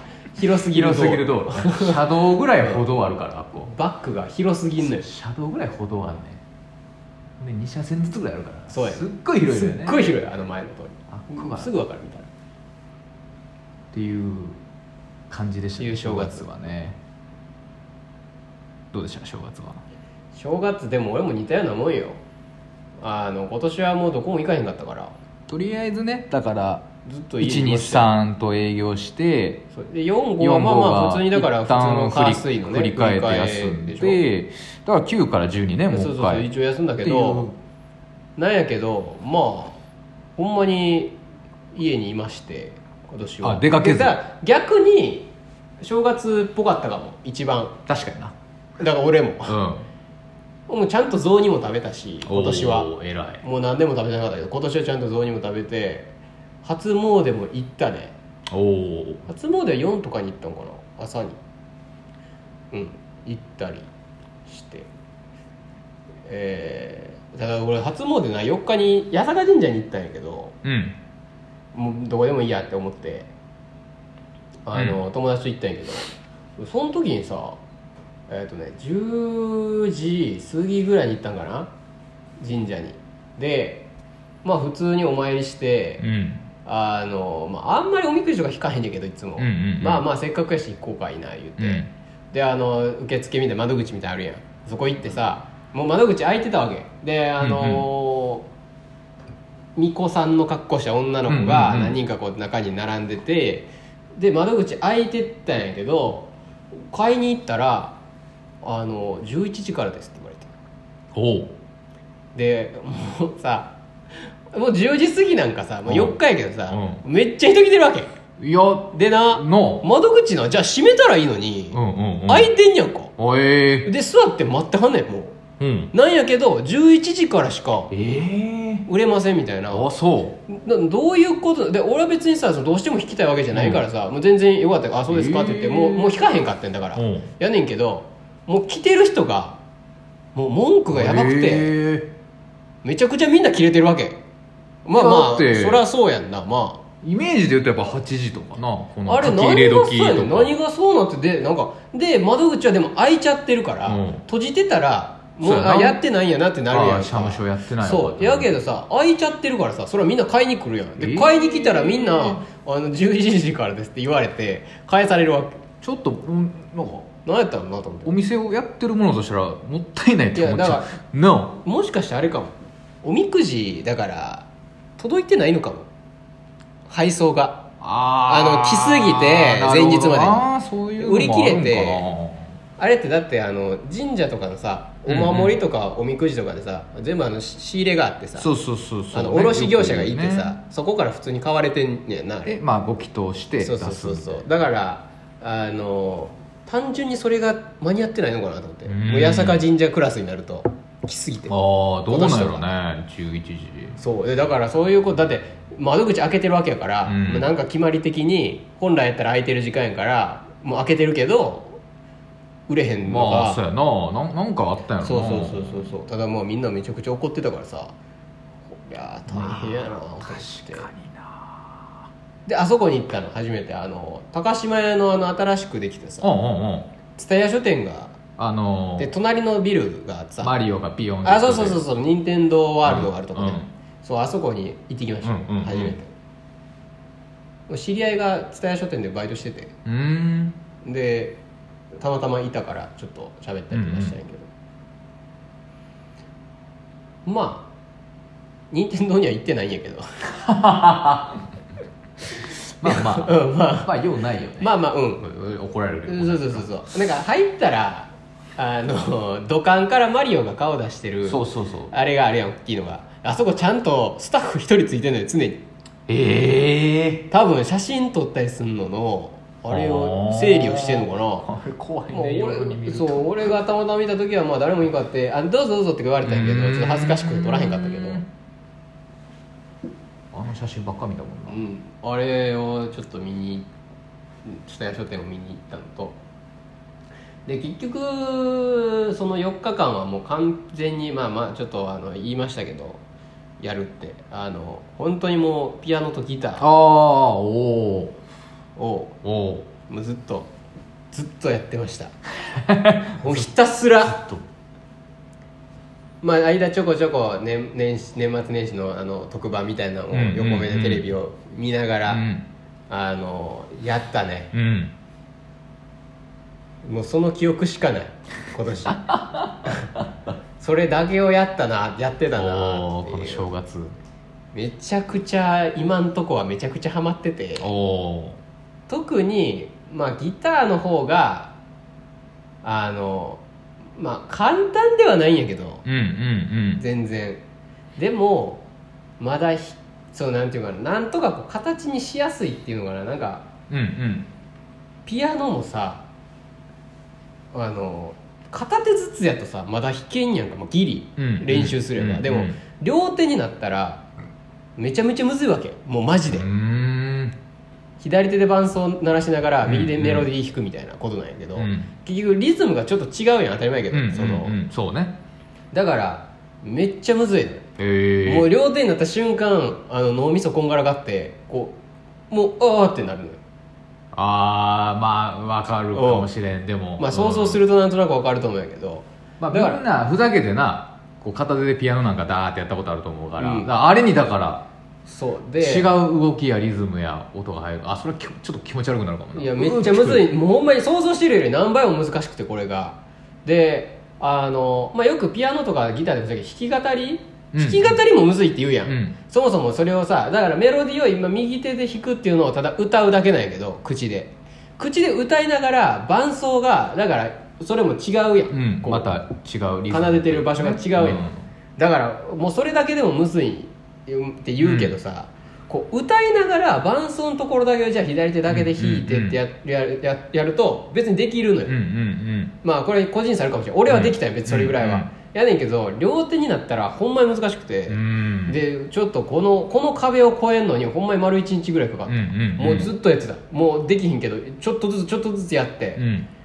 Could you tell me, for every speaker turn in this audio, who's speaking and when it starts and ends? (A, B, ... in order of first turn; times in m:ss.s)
0:00.3-0:02.0 A
0:00.7-0:03.7 B
0:03.7-0:05.1 A
0:04.8-0:06.4 B
0:07.4-0:10.3 B
0:08.7-0:12.3 A
0:11.1-0:11.7 B
0:13.9-0:14.6 B
0:15.3-0:17.0 B
0:15.8-0:16.5 A
0:18.9-0:19.8 B
0:20.3-0:22.2 A
0:23.0-0:25.2 A
0:25.5-0:26.9 B
0:27.0-0:28.1 A
0:27.4-0:29.7 B
0:29.7-0:34.2 A
0:30.4-0:36.5 B
0:35.9-0:37.5 A
0:37.0-0:37.6 B
0:38.4-0:39.8 A
0:40.4-0:41.2 A
0:41.7-0:47.8 A
0:43.4-0:44.2 B
0:47.9-0:48.3 B
0:48.8-0:49.6 A
0:49.5-0:49.9 B
0:50.7-0:52.9 A
0:52.2-0:53.4 B
0:53.4-0:58.2 A
0:58.5-0:59.3 B
0:59.3-1:01.4 A
1:02.7-1:03.9 A
1:04.5-1:04.9 A
1:06.3-1:10.6 A
1:10.6-1:11.0 B
1:11.7-1:13.3 A
1:14.6-1:17.6 A
1:18.3-1:21.7 A
1:22.4-1:23.9 A
1:24.4-1:26.1 A
1:26.0-1:26.4 B
1:26.6-1:38.5 A
1:29.4-1:30.0 B
1:31.6-1:31.9 B
1:37.4-1:37.9 B
1:39.8-1:46.3 A
1:41.3-1:42.0 B
1:46.9-1:48.0 A
1:48.6-1:50.5 A
1:51.1-1:51.6 B
1:52.4-1:53.8 A
1:54.5-1:58.1 A
1:55.9-1:56.2 B
1:56.7-1:57.0 B
1:58.4-1:59.8 B
1:58.9-2:03.1 A
2:01.7-2:02.5 B
2:03.2-2:03.9 B
2:03.8-2:05.4 A
2:05.6-2:05.9 B
2:05.9-2:07.9 A
2:07.9-2:08.9 B
2:08.9-2:09.9 A
2:09.7-2:10.4 B
2:10.5-2:19.6 A
2:13.5-2:13.8 B
2:15.1-2:16.2 B
2:17.0-2:17.3 B
2:20.4-2:21.7 A
2:20.9-2:22.1 B
2:22.8-2:24.2 A
2:24.8-2:26.8 A
2:25.0-2:25.8 B
2:27.0-2:30.5 B
2:29.1-2:45.6 A
2:33.9-2:34.2 B
2:35.4-2:36.0 B
2:36.7-2:38.6 B
2:41.0-2:42.4 B
2:45.8-2:47.1 B
2:47.3-2:48.1 A
2:48.0-2:51.6 B
2:50.3-2:51.0 A
2:51.6-2:55.9 A
2:56.9-2:57.7 A
2:57.8-3:02.6 B
2:58.3-3:02.1 A
3:02.8-3:08.5 A
3:05.1-3:05.6 B
3:08.4-3:10.6 B
3:09.1-3:12.6 A
3:12.5-3:14.5 B
3:13.6-3:21.6 A
3:18.9-3:19.6 B
3:21.5-3:24.0 B
3:22.1-3:22.7 A
3:24.0-3:31.8 A
3:27.1-3:27.5 B
3:32.7-3:33.6 A
3:33.0-3:35.9 B
3:35.0-3:38.0 A
3:38.7-3:40.9 A
3:39.3-3:42.0 B
3:42.5-3:46.3 A
3:46.2-3:46.9 B
3:47.2-3:48.2 A
3:48.4-3:49.1 B
3:49.0-3:50.6 A
3:50.4-3:51.8 B
3:51.2-3:56.1 A
3:52.8-3:53.7 B
3:55.2-3:56.0 B
3:57.7-3:59.8 A
3:59.8-4:00.6 B
4:00.8-4:01.4 A
4:02.0-4:04.5 A
4:03.7-4:04.2 B
4:07.3-4:07.7 A
4:08.7-4:10.0 A
4:10.3-4:11.4 B
4:12.8-4:16.8 B
4:12.8-4:13.9 A
4:14.6-4:15.2 A
4:16.1-4:25.6 A
4:21.2-4:21.9 B
4:26.1-4:27.3 B
4:27.3-4:31.5 A
4:29.7-4:33.5 B
4:32.1-4:38.2 A
4:36.2-4:38.3 B
4:40.3-4:41.6 B
4:41.5-4:43.7 A
4:44.4-4:46.2 A
4:47.5-4:53.0 A
4:53.6-4:56.7 A
4:56.6-4:58.2 B
4:58.8-4:59.2 A
4:59.2-4:59.7 B
4:59.9-5:00.5 A
5:01.1-5:02.1 A
5:02.4-5:03.5 B
5:03.2-5:04.2 A
5:04.0-5:04.4 B
5:06.2-5:12.2 A
5:10.1-5:11.1 B
5:12.1-5:12.5 B
5:12.9-5:14.5 A
5:14.5-5:15.0 B
5:16.8-5:19.1 A
5:18.9-5:20.1 B
5:19.6-5:19.9 A
5:20.6-5:23.5 A
5:22.4-5:24.0 B
5:24.5-5:27.7 A
5:27.6-5:28.4 B
5:28.9-5:31.5 A
5:32.6-5:33.4 A
5:34.0-5:35.8 A
5:35.8-5:36.8 B
5:36.8-5:37.4 A
5:38.0-5:38.6 A
5:39.2-5:43.5 A
5:43.7-5:44.3 B
5:45.1-5:46.1 A
5:47.5-5:54.1 A
5:51.2-5:52.6 B
5:54.8-5:56.5 A
5:56.3-5:57.4 B
5:58.0-6:04.6 A
5:59.6-6:00.3 B
6:01.6-6:01.9 B
6:03.9-6:05.2 B
6:05.7-6:07.7 A
6:07.8-6:08.5 B
6:08.2-6:11.8 A
6:12.3-6:13.4 A
6:14.1-6:17.6 B
6:15.9-6:16.3 A
6:17.0-6:19.8 A
6:19.4-6:24.7 B
6:23.4-6:23.7 A
6:25.1-6:25.9 A
6:25.6-6:30.2 B
6:29.4-6:49.2 A
6:37.5-6:38.0 B
6:38.8-6:39.2 B
6:48.5-6:51.4 B
6:49.9-6:51.2 A
6:51.8-7:01.8 A
6:54.6-6:54.9 B
6:58.5-6:59.4 B
7:01.7-7:02.6 B
7:02.6-7:16.0 A
7:03.9-7:05.1 B
7:07.9-7:08.6 B
7:12.1-7:12.9 B
7:16.0-7:16.3 B